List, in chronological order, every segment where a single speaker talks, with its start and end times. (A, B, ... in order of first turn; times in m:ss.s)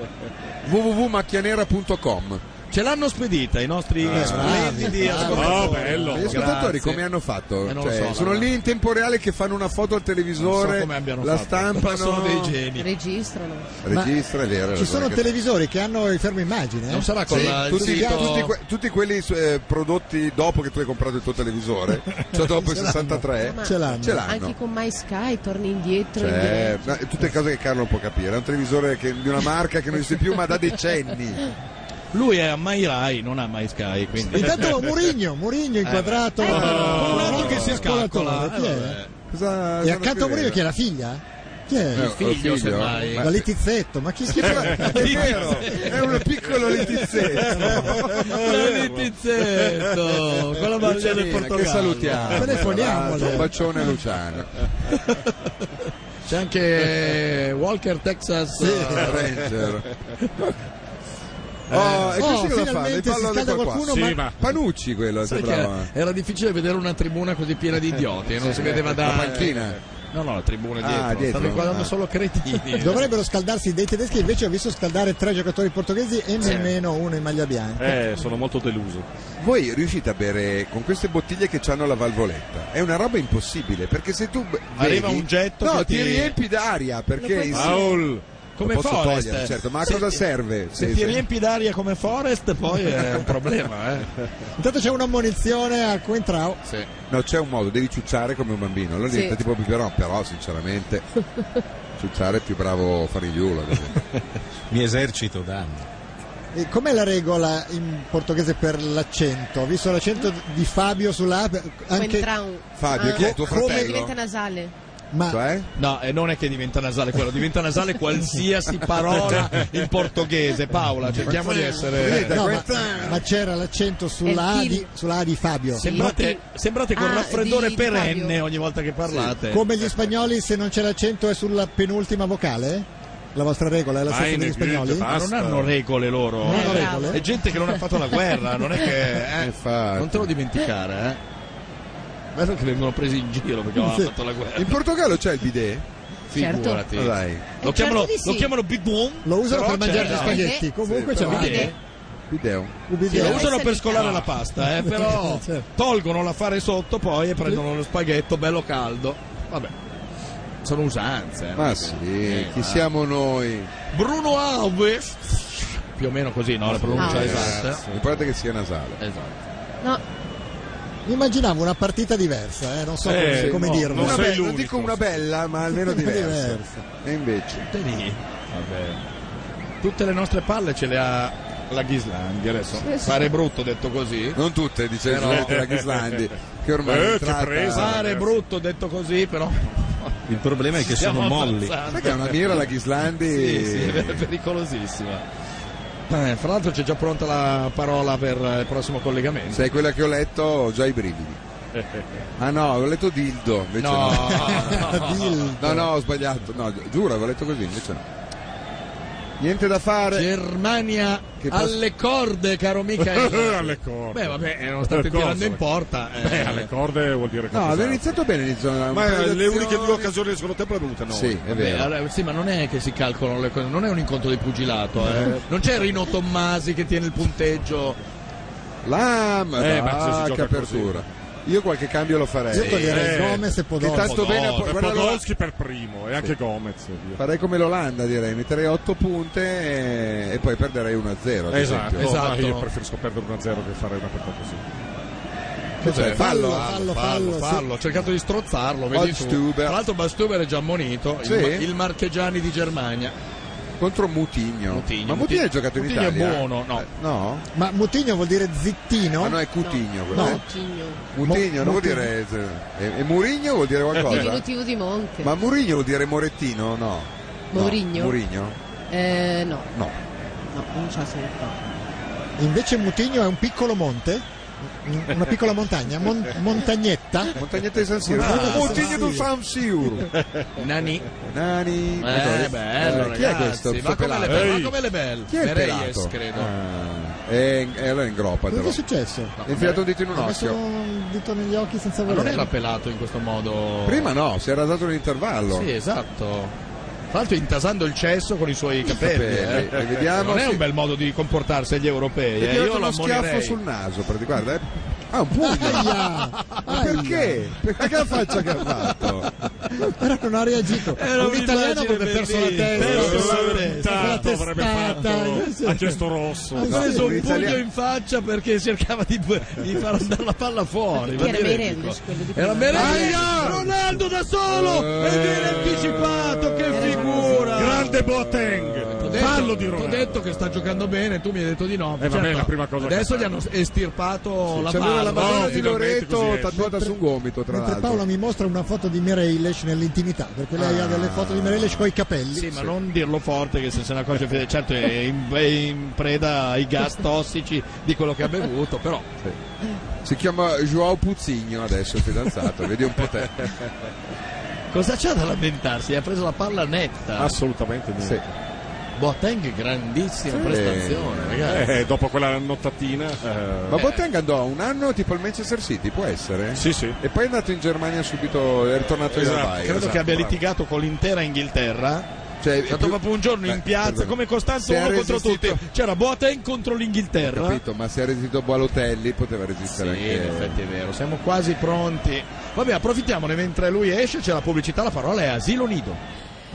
0:00.6-0:02.4 A
0:02.7-0:07.0 B
0:04.1-0:12.6 A
0:04.1-0:04.5 C
0:04.1-0:05.9 D
0:05.2-0:06.5 C
0:07.6-0:08.5 B
0:10.4-0:12.9 B
0:12.7-0:13.7 E
0:13.8-0:15.3 A
0:13.9-0:14.1 D
0:14.7-0:18.5 D
0:16.9-0:18.5 B
0:17.3-0:24.6 A
0:22.4-0:24.2 D
0:23.4-0:26.9 E
0:26.2-0:31.4 A
0:32.1-0:34.7 B
0:34.3-0:39.0 D
0:35.8-0:39.1 B
0:36.4-0:37.8 C
0:39.3-0:40.6 A
0:39.8-0:42.1 D
0:41.9-0:43.5 A
0:41.9-0:43.3 B
0:43.2-0:45.5 D
0:44.3-0:48.5 A
0:44.9-0:46.1 B
0:47.6-0:49.1 C
0:48.1-0:53.1 B
0:50.7-0:54.7 A
0:52.3-0:53.5 D
0:54.9-0:55.3 B
0:56.2-0:59.3 B
0:58.6-0:59.1 D
0:58.9-0:59.9 A
1:00.2-1:00.5 B
1:01.7-1:02.2 C
1:01.7-1:05.9 A
1:02.2-1:04.2 D
1:03.8-1:04.4 C
1:05.2-1:09.5 B
1:08.4-1:09.8 A
1:10.1-1:13.1 B
1:10.8-1:11.9 A
1:12.7-1:18.0 D
1:17.8-1:19.0 C
1:19.4-1:28.0 A
1:24.7-1:26.4 B
1:27.5-1:28.2 C
1:28.6-1:34.1 B
1:28.6-1:31.2 A
1:34.6-1:36.6 D
1:37.1-1:41.0 A
1:39.1-1:39.4 E
1:42.0-1:44.0 A
1:44.7-1:45.9 F
1:46.5-1:52.3 D
1:51.9-1:54.7 E
1:52.8-1:54.2 A
1:52.9-1:54.0 D
1:55.1-1:55.4 D
1:55.3-1:55.7 A
1:55.8-2:02.4 B
2:01.2-2:03.2 A
2:02.3-2:06.1 D
2:04.2-2:04.9 E
2:05.7-2:09.6 B
2:05.8-2:06.4 E
2:06.9-2:08.4 E
2:09.0-2:09.3 A
2:09.5-2:15.1 D
2:14.0-2:15.7 C
2:15.0-2:21.2 B
2:16.4-2:17.2 D
2:16.4-2:17.2 E
2:19.3-2:20.3 A
2:22.3-2:24.8 B
2:23.8-2:24.1 D
2:24.5-2:25.9 A
2:26.3-2:30.5 B
2:26.3-2:26.8 E
2:26.9-2:27.5 A
2:27.6-2:28.5 E
2:29.2-2:31.7 D
2:29.8-2:31.7 E
2:30.8-2:31.5 A
2:31.1-2:31.8 B
2:32.3-2:32.8 A
2:32.9-2:33.5 D
2:33.1-2:39.7 B
2:33.1-2:34.3 E
2:34.6-2:35.6 D
2:40.6-2:42.9 B
2:41.5-2:43.7 A
2:43.9-2:47.8 B
2:46.7-2:49.0 A
2:47.0-2:48.3 C
2:47.0-2:47.6 E
2:49.0-2:49.4 B
2:51.0-2:54.3 D
2:53.0-2:55.2 C
2:53.2-2:57.6 A
2:55.8-2:56.8 D
2:57.5-2:59.0 B
2:59.8-3:04.4 B
3:02.8-3:03.3 E
3:04.3-3:08.0 A
3:05.0-3:05.5 B
3:05.1-3:06.2 C
3:06.8-3:08.4 C
3:07.7-3:12.7 B
3:10.2-3:11.8 F
3:11.9-3:14.3 A
3:13.2-3:15.2 B
3:16.1-3:19.7 B
3:19.5-3:21.4 A
3:21.7-3:22.0 C
3:22.4-3:25.0 A
3:23.8-3:25.6 B
3:24.4-3:25.9 D
3:25.6-3:28.0 A
3:29.4-3:30.3 A
3:30.1-3:36.7 B
3:31.4-3:31.8 A
3:33.0-3:35.6 C
3:36.2-3:38.2 C
3:37.5-3:40.1 A
3:38.9-3:41.4 C
3:41.1-3:41.9 A
3:41.5-3:48.0 B
3:48.8-3:55.2 A
3:49.6-3:51.0 C
3:52.5-3:54.2 D
3:52.8-3:53.5 C
3:53.8-3:54.7 B
3:54.5-3:57.2 C
3:57.2-4:02.1 A
4:01.5-4:04.6 C
4:02.0-4:02.6 B
4:05.8-4:13.1 B
4:05.8-4:06.7 A
4:05.8-4:07.7 D
4:08.9-4:09.8 A
4:11.2-4:11.7 A
4:13.8-4:17.4 A
4:14.7-4:16.8 B
4:17.5-4:19.4 D
4:19.2-4:20.4 A
4:19.6-4:21.1 E
4:20.1-4:20.4 D
4:21.1-4:24.4 A
4:21.2-4:22.1 D
4:24.0-4:25.3 E
4:25.2-4:28.6 A
4:27.5-4:28.2 E
4:28.9-4:29.7 E
4:30.5-4:31.7 E
4:32.4-4:34.2 D
4:34.8-4:37.4 D
4:37.3-4:40.1 A
4:38.1-4:39.3 D
4:38.1-4:39.0 B
4:40.6-4:41.0 B
4:41.3-4:44.6 A
4:42.0-4:46.5 B
4:44.3-4:44.8 C
4:45.3-4:48.8 A
4:48.5-4:49.4 D
4:49.4-4:49.8 B
4:49.4-4:50.6 A
4:50.1-4:52.5 D
4:52.1-4:54.1 B
4:53.8-4:55.7 A
4:55.5-4:56.6 B
4:57.1-5:03.6 B
4:58.8-5:00.6 A
5:02.4-5:09.3 A
5:05.4-5:07.4 D
5:07.8-5:09.7 B
5:09.7-5:15.8 D
5:10.9-5:14.3 B
5:12.7-5:16.8 C
5:15.4-5:15.8 B
5:16.5-5:17.5 D
5:16.6-5:28.0 B
5:16.6-5:17.6 A
5:21.0-5:23.5 E
5:22.7-5:23.7 C
5:22.8-5:23.5 A
5:24.4-5:29.8 A
5:25.4-5:25.7 C
5:26.7-5:27.7 E
5:27.5-5:31.0 C
5:29.0-5:35.7 B
5:32.0-5:33.3 C
5:34.5-5:38.0 A
5:35.1-5:36.6 C
5:36.5-5:37.0 D
5:37.5-5:42.7 D
5:40.6-5:41.9 A
5:42.3-5:49.1 B
5:50.0-5:53.5 A
5:54.7-5:57.4 B
5:57.2-5:58.3 C
5:58.0-5:58.2 A
5:59.0-6:01.7 B
6:00.3-6:01.6 A
6:01.5-6:03.8 C
6:03.7-6:10.3 A
6:06.5-6:07.0 C
6:09.1-6:10.2 C
6:09.6-6:12.1 B
6:12.4-6:15.6 A
6:12.6-6:17.6 B
6:17.2-6:20.6 A
6:19.7-6:26.0 B